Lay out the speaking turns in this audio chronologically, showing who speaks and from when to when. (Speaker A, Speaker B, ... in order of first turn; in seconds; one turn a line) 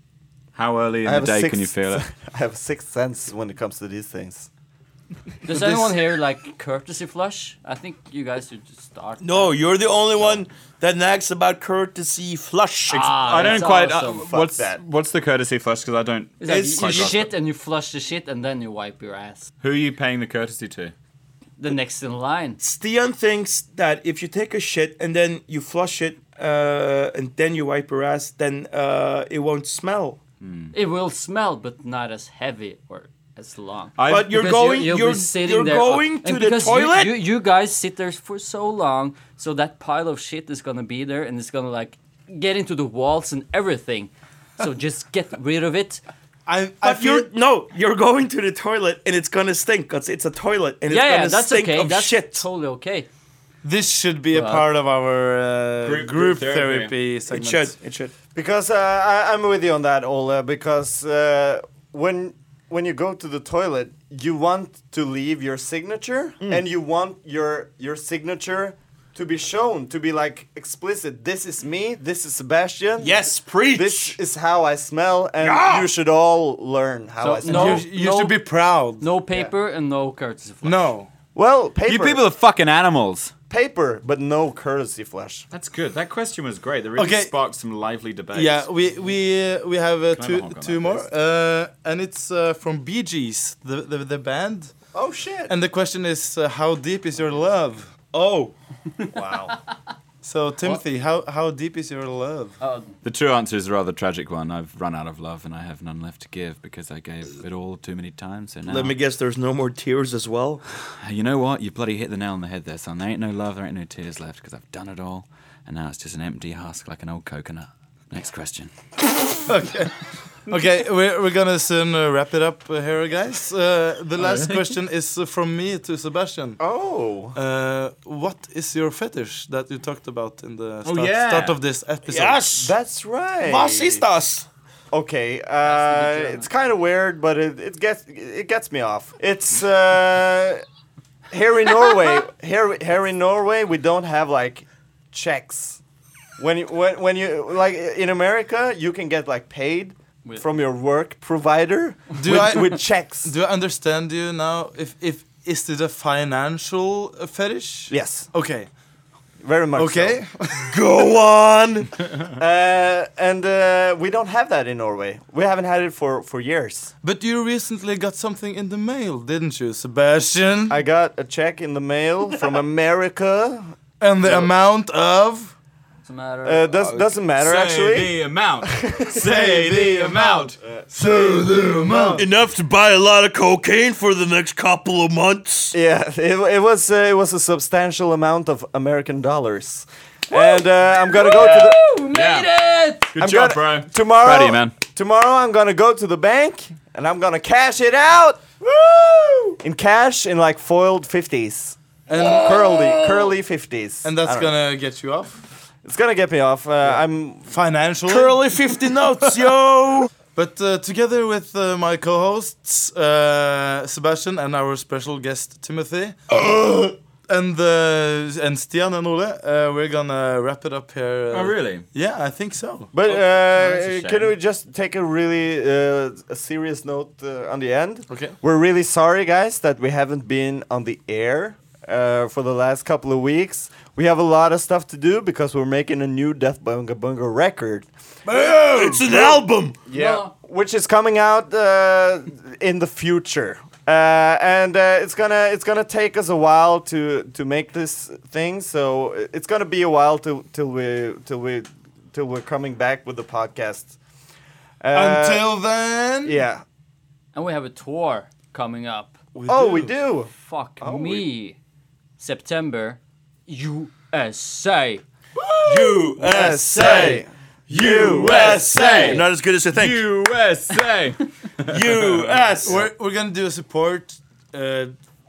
Speaker A: 0.5-2.0
Speaker B: 1.0-4.5
Speaker C: 5.4-9.6
Speaker D: 5.5-5.9
Speaker E: 9.2-13.2
Speaker C: 12.9-14.3
Speaker A: 13.0-17.2
Speaker B: 14.0-14.8
Speaker C: 16.4-19.5
Speaker E: 16.5-17.2
Speaker A: 19.6-20.9
Speaker C: 21.6-22.6
Speaker E: 22.6-30.2
Speaker A: 30.4-30.7
Speaker C: 30.7-46.0
Speaker A: 34.0-34.3
Speaker E: 34.0-37.2
Speaker D: 46.5-47.3
Speaker E: 46.8-52.4
Speaker C: 50.9-53.1
Speaker D: 53.6-57.7
Speaker C: 54.3-54.7
Speaker A: 55.8-56.9
Speaker E: 57.3-58.1
Speaker B: 58.3-77.8
Speaker E: 73.0-74.2
Speaker E: 75.4-75.9
Speaker C: 77.2-78.4
Speaker D: 77.4-79.0
Speaker C: 79.0-80.9
Speaker D: 80.6-81.1
Speaker B: 81.3-82.2
Speaker A: 81.8-83.3
Speaker B: 83.5-85.5
Speaker A: 85.5-88.7
Speaker D: 87.0-87.3
Speaker D: 88.3-94.7
Speaker A: 90.1-91.0
Speaker B: 94.9-95.5
Speaker D: 95.5-97.9
Speaker E: 98.1-98.5
Speaker B: 99.1-99.5
Speaker D: 100.2-102.6
Speaker C: 102.6-103.0
Speaker A: 103.0-109.0
Speaker E: 108.7-110.6
Speaker A: 110.9-118.7
Speaker D: 119.5-120.0
Speaker D: 120.5-126.6
Speaker A: 124.2-124.6
Speaker B: 126.6-127.3
Speaker D: 127.3-132.5
Speaker A: 130.8-131.6
Speaker E: 132.1-132.7
Speaker B: 132.6-134.0
Speaker E: 133.4-134.4
Speaker B: 134.9-140.6
Speaker C: 135.6-136.5
Speaker B: 141.3-145.8
Speaker B: 146.4-153.3
Speaker D: 152.2-158.7
Speaker B: 157.9-158.3
Speaker B: 159.4-160.2
Speaker D: 159.8-160.7
Speaker E: 160.6-162.0
Speaker B: 162.3-166.9
Speaker D: 167.0-170.8
Speaker B: 170.7-173.7
Speaker D: 174.0-175.5
Speaker C: 176.0-177.0
Speaker B: 176.4-180.1
Speaker A: 177.4-180.6
Speaker D: 180.9-182.2
Speaker B: 181.9-182.2
Speaker E: 182.2-185.7
Speaker B: 185.7-191.9
Speaker C: 190.3-193.1
Speaker A: 191.2-192.5
Speaker A: 193.0-194.8
Speaker B: 193.2-198.6
Speaker B: 199.6-204.5
Speaker D: 202.1-202.6
Speaker C: 202.1-203.3
Speaker D: 204.0-205.4
Speaker B: 205.8-207.5
Speaker D: 206.8-208.4
Speaker E: 208.0-210.1
Speaker D: 210.3-222.9
Speaker A: 221.3-221.9
Speaker B: 222.9-237.9
Speaker A: 223.5-224.3
Speaker D: 228.1-228.3
Speaker D: 238.2-239.3
Speaker E: 238.3-239.8
Speaker B: 239.9-253.9
Speaker C: 239.9-240.3
Speaker B: 254.8-255.6
Speaker D: 254.9-256.4
Speaker B: 256.2-256.6
Speaker C: 257.3-259.2
Speaker D: 259.3-259.9
Speaker B: 259.5-260.3
Speaker C: 260.3-261.6
Speaker B: 260.8-261.3
Speaker C: 262.2-265.0
Speaker E: 265.6-270.0
Speaker B: 266.2-268.6
Speaker D: 266.8-267.2
Speaker A: 267.8-272.3
Speaker C: 268.5-269.2
Speaker E: 271.7-272.8
Speaker D: 272.6-274.9